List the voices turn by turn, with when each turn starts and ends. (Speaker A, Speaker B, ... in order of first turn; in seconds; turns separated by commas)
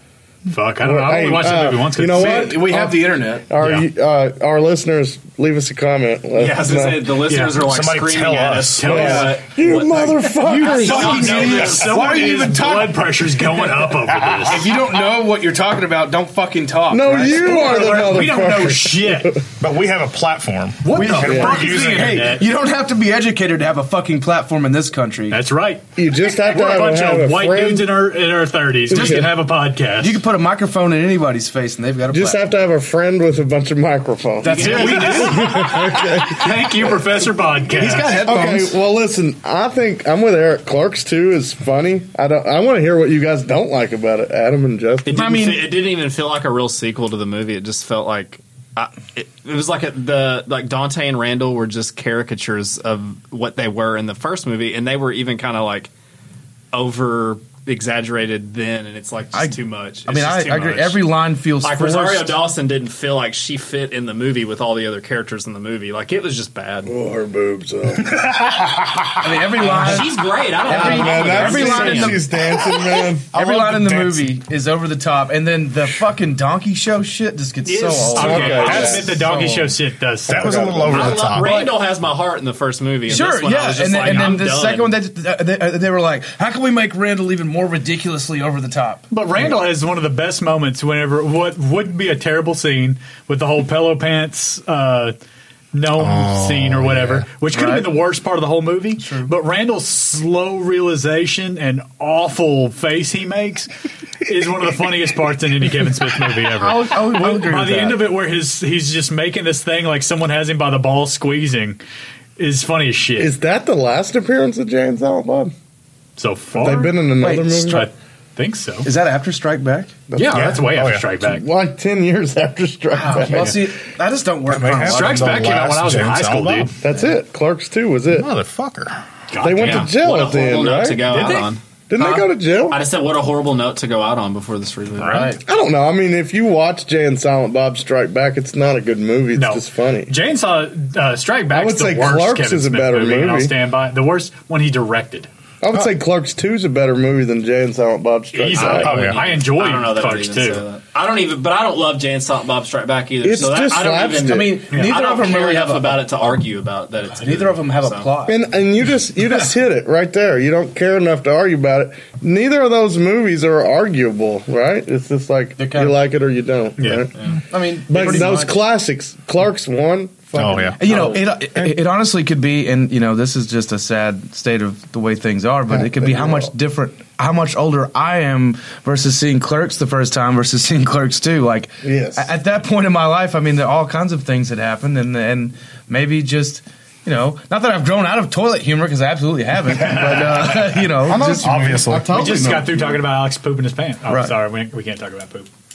Speaker A: 0.5-2.6, Speaker B: 0.8-7.2, Speaker C: 2.1-3.5, Speaker A: 3.6-3.9, Speaker A: 6.4-6.7, Speaker D: 6.4-12.3, Speaker A: 7.2-7.6, Speaker E: 7.6-8.9, Speaker A: 8.8-9.4, Speaker B: 8.8-11.2, Speaker C: 8.9-9.3, Speaker A: 10.4-14.8, Speaker C: 10.4-18.0, Speaker E: 14.2-14.5, Speaker B: 16.9-19.4, Speaker A: 17.2-19.4, Speaker E: 19.6-22.3, Speaker A: 20.8-22.5, Speaker C: 20.9-25.4, Speaker B: 21.2-21.5, Speaker A: 25.3-30.2, Speaker B: 26.0-27.9, Speaker B: 28.9-29.3, Speaker C: 28.9-29.3, Speaker C: 30.0-32.5, Speaker B: 32.1-37.0, Speaker C: 34.4-35.7, Speaker A: 34.4-38.1, Speaker C: 37.7-38.8, Speaker B: 38.1-45.3, Speaker D: 45.1-55.9, Speaker C: 45.1-45.8, Speaker D: 56.7-61.0, Speaker C: 59.3-62.4, Speaker D: 61.6-66.9, Speaker B: 66.8-68.1, Speaker E: 68.0-69.4, Speaker C: 69.2-72.3, Speaker D: 69.6-72.3, Speaker B: 70.7-73.3, Speaker E: 73.3-74.3, Speaker C: 73.3-79.7, Speaker A: 77.7-81.7, Speaker B: 78.2-79.3, Speaker E: 78.6-79.0, Speaker E: 80.3-81.5, Speaker B: 80.4-80.9, Speaker C: 80.4-80.9, Speaker D: 80.8-85.0, Speaker C: 83.1-89.1, Speaker A: 84.1-84.4, Speaker A: 89.1-95.2, Speaker A: 95.7-103.7, Speaker E: 96.0-97.2, Speaker C: 97.5-97.9, Speaker C: 99.0-99.3, Speaker A: 104.2-111.8, Speaker C: 106.5-108.0, Speaker A: 112.4-113.3, Speaker B: 113.2-115.5, Speaker A: 116.2-117.0, Speaker B: 116.5-117.8, Speaker C: 117.2-117.9, Speaker A: 117.7-118.9, Speaker C: 118.8-120.0, Speaker B: 120.1-120.6, Speaker A: 120.2-121.5, Speaker E: 120.3-121.1, Speaker B: 121.2-123.7, Speaker C: 122.9-125.6, Speaker E: 124.5-126.7, Speaker A: 124.9-126.7, Speaker B: 126.8-128.3, Speaker E: 128.1-129.0, Speaker A: 129.3-129.9, Speaker B: 129.4-131.4, Speaker D: 129.6-131.6, Speaker A: 131.1-131.5, Speaker B: 131.9-132.8, Speaker C: 131.9-132.3, Speaker D: 132.7-135.4, Speaker C: 135.1-135.4, Speaker B: 135.4-140.1, Speaker A: 139.3-145.3, Speaker B: 141.5-143.6, Speaker B: 145.6-148.9, Speaker A: 148.3-150.7, Speaker D: 148.5-158.1, Speaker E: 148.9-149.2, Speaker B: 153.2-154.6, Speaker C: 154.2-156.1, Speaker C: 157.2-158.4, Speaker B: 158.3-167.1, Speaker C: 165.6-166.0, Speaker A: 166.8-167.1, Speaker C: 167.5-168.6, Speaker B: 167.9-171.2, Speaker E: 170.4-171.8, Speaker C: 170.8-191.5, Speaker B: 175.7-176.5, Speaker B: 181.8-182.3, Speaker A: 190.0-190.3, Speaker B: 191.0-193.0, Speaker E: 191.2-192.3, Speaker A: 192.1-195.5, Speaker C: 194.1-194.3